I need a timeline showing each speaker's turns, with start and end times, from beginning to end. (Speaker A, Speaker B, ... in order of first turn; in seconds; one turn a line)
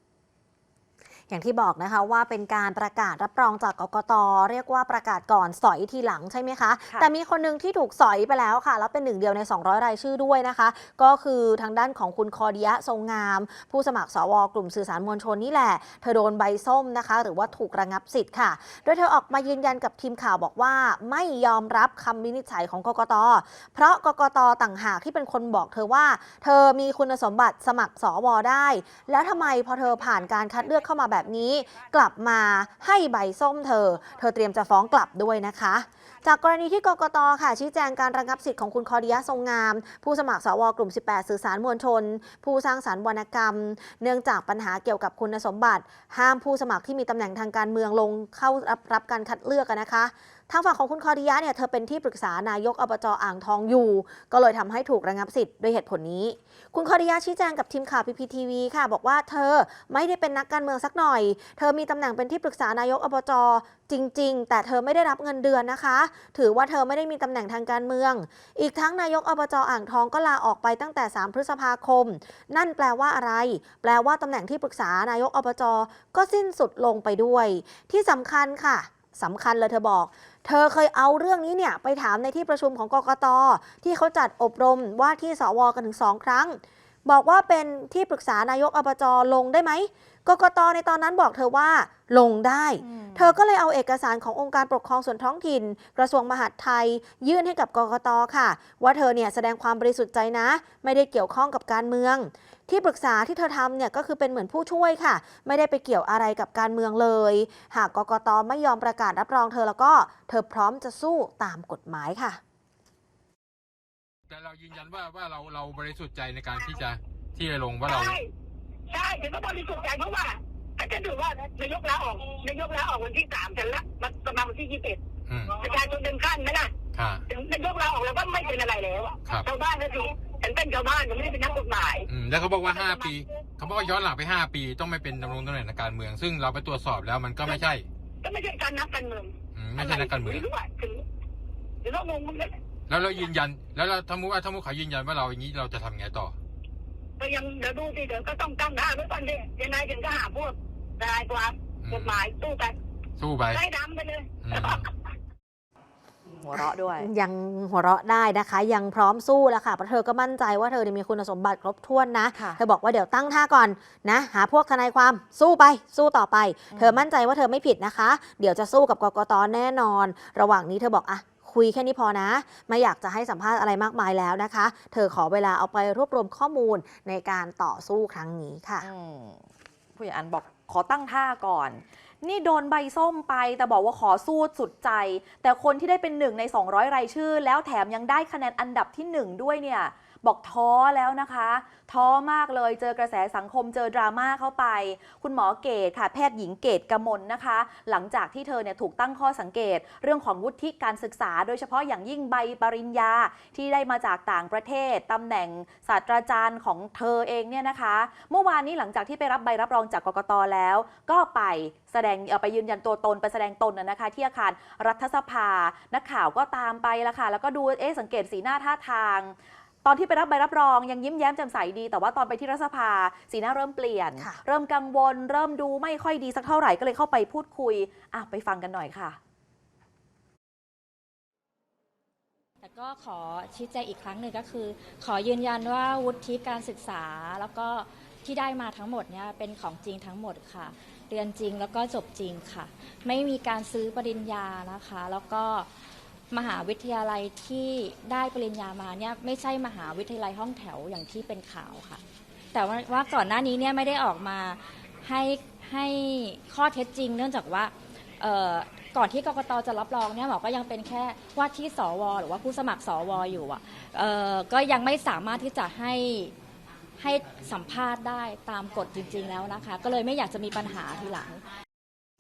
Speaker A: 1.3-112.4
Speaker B: 92.8-93.4
Speaker C: 114.3-118.2
Speaker D: 117.8-118.3
Speaker D: 118.9-126.7
Speaker C: 125.2-125.5
Speaker C: 126.9-127.2
Speaker D: 127.3-132.1
Speaker C: 132.1-137.8
Speaker D: 132.7-133.2
Speaker D: 138.2-141.0
Speaker C: 139.5-140.5
Speaker D: 141.8-142.6
Speaker C: 142.9-146.3
Speaker D: 147.2-152.8
Speaker C: 151.8-152.2
Speaker C: 153.2-153.6
Speaker D: 153.5-154.8
Speaker C: 154.4-154.8
Speaker B: 156.4-157.1
Speaker A: 156.5-178.9
Speaker B: 162.3-162.6
Speaker B: 166.7-167.0
Speaker B: 178.8-229.2
Speaker E: 232.6-245.7
Speaker E: 246.3-252.0
Speaker E: 252.5-266.3
Speaker E: 267.0-271.4